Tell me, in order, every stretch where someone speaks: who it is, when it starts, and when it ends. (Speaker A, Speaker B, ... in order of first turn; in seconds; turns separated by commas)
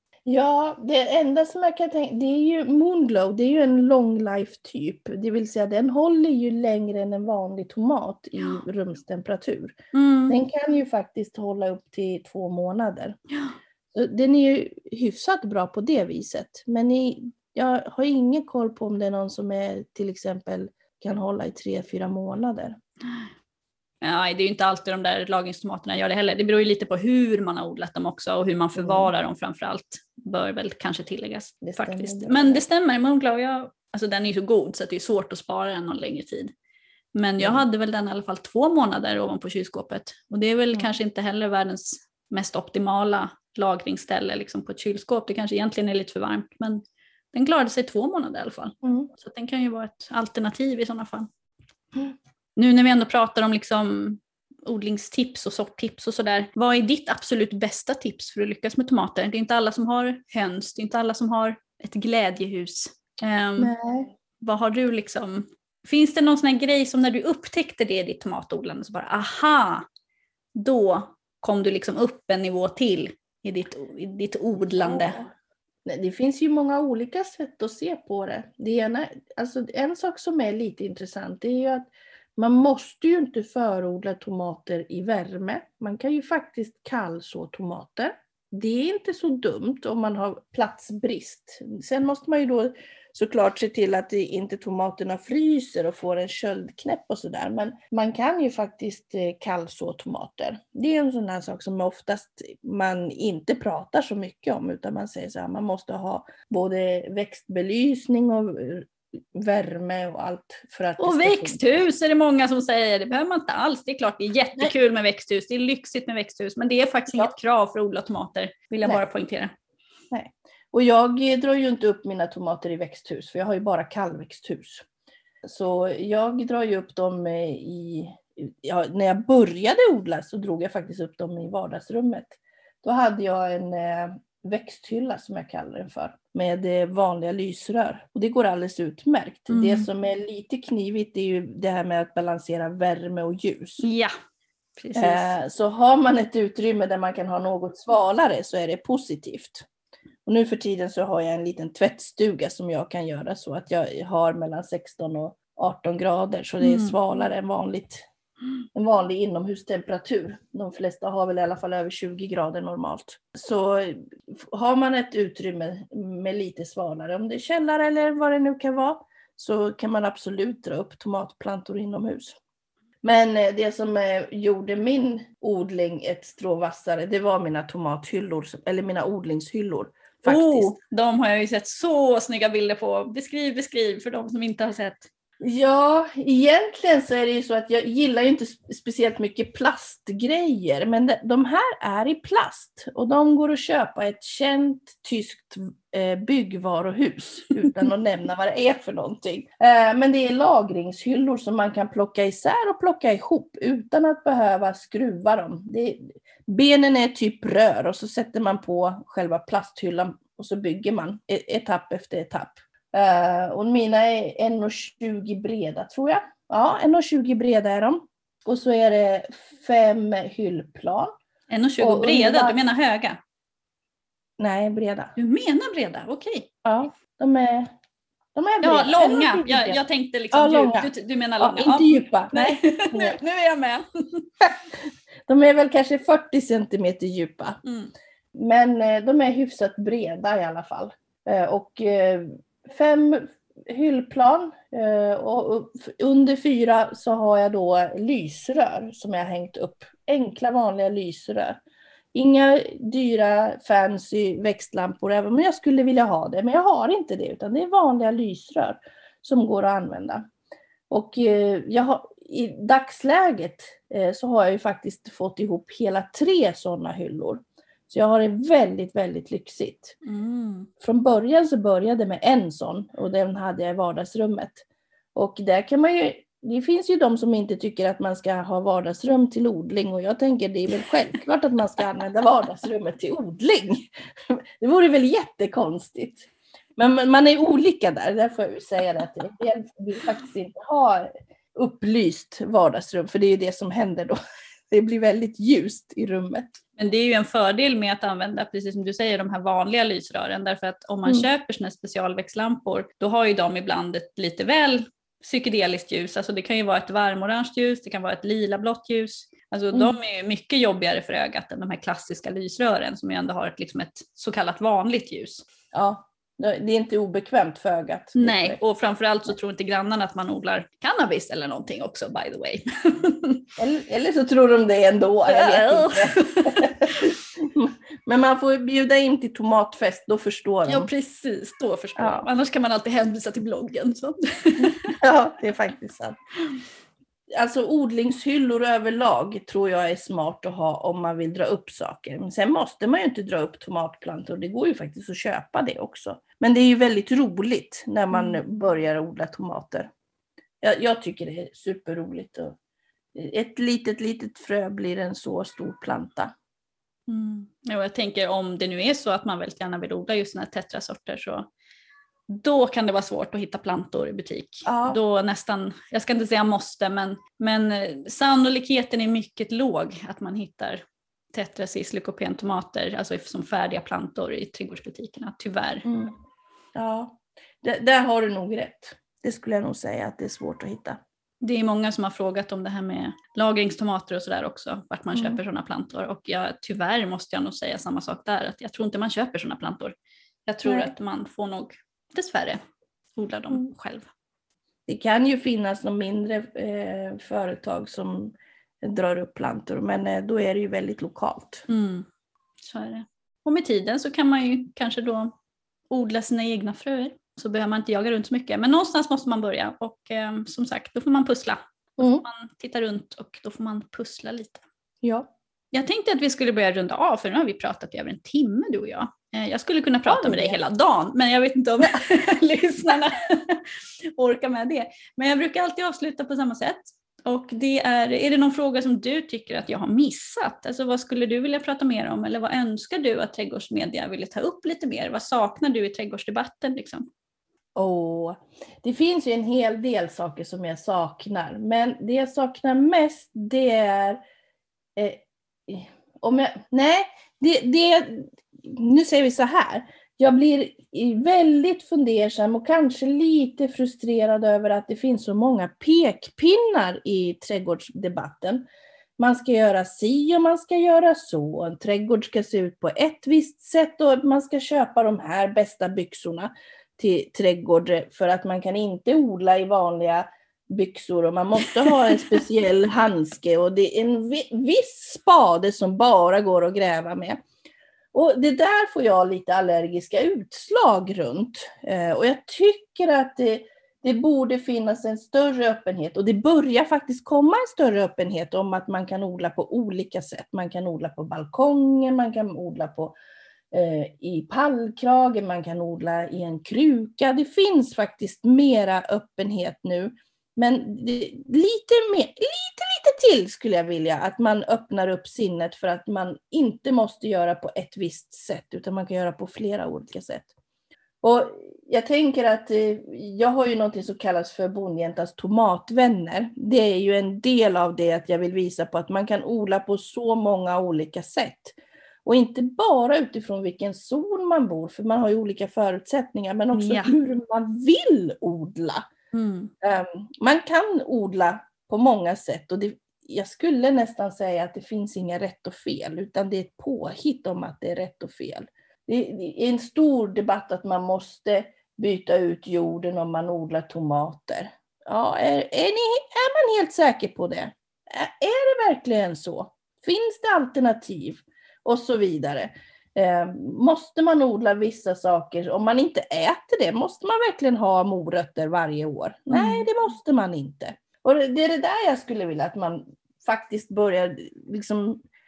Speaker A: 0.3-9.8, Speaker B: 9.9-10.4, Speaker A: 10.3-13.2, Speaker B: 13.3-13.6, Speaker A: 13.9-22.8, Speaker B: 24.0-36.5, Speaker A: 28.8-29.1, Speaker A: 31.6-32.6, Speaker B: 37.1-51.3, Speaker B: 52.6-63.7, Speaker A: 63.6-64.1, Speaker B: 64.4-69.9, Speaker B: 70.5-75.2, Speaker A: 74.6-75.3, Speaker A: 75.8-111.8, Speaker B: 111.0-119.5, Speaker A: 120.1-124.9, Speaker A: 125.5-143.9, Speaker B: 139.5-139.9, Speaker B: 143.8-144.1, Speaker B: 144.8-145.3, Speaker A: 144.9-149.7, Speaker A: 150.3-158.0, Speaker B: 156.6-157.0, Speaker A: 158.8-172.4, Speaker A: 173.0-180.7, Speaker B: 180.3-185.1, Speaker A: 185.4-221.1, Speaker B: 221.5-223.2, Speaker A: 221.8-222.6, Speaker A: 224.4-225.1, Speaker B: 225.2-226.5, Speaker A: 226.7-227.7, Speaker A: 228.3-229.8, Speaker B: 228.6-234.3, Speaker A: 230.3-230.9, Speaker A: 231.4-233.2, Speaker A: 235.3-237.6, Speaker B: 237.6-237.9, Speaker A: 238.3-251.6, Speaker A: 252.1-260.3, Speaker A: 260.9-270.0, Speaker B: 270.0-270.7, Speaker A: 270.8-294.2, Speaker A: 294.7-296.6, Speaker B: 296.8-315.4, Speaker A: 315.7-318.6, Speaker B: 318.2-323.4, Speaker A: 323.6-330.9, Speaker B: 325.3-327.1, Speaker B: 330.6-335.0, Speaker A: 332.0-332.3, Speaker A: 334.6-336.2, Speaker A: 337.3-349.9, Speaker B: 348.1-348.4, Speaker A: 350.6-352.6, Speaker A: 353.1-356.3, Speaker B: 357.1-361.5, Speaker B: 362.3-370.8, Speaker A: 364.6-365.0, Speaker B: 371.3-375.9, Speaker A: 375.9-376.1, Speaker A: 376.8-381.0, Speaker B: 381.4-389.9, Speaker A: 385.1-385.4, Speaker B: 390.5-392.6, Speaker A: 390.6-390.9, Speaker B: 393.2-394.1, Speaker A: 394.9-401.7, Speaker B: 401.7-402.1, Speaker B: 402.6-405.3, Speaker B: 405.9-414.6, Speaker A: 412.0-412.2, Speaker A: 415.0-415.3, Speaker B: 415.7-437.1, Speaker A: 420.1-420.6, Speaker A: 437.8-444.2, Speaker A: 445.0-458.7, Speaker A: 459.2-477.4, Speaker A: 478.1-493.2, Speaker A: 493.7-510.5, Speaker A: 511.2-529.1, Speaker B: 526.7-527.2, Speaker B: 529.3-529.7, Speaker A: 529.8-565.2, Speaker B: 559.5-559.9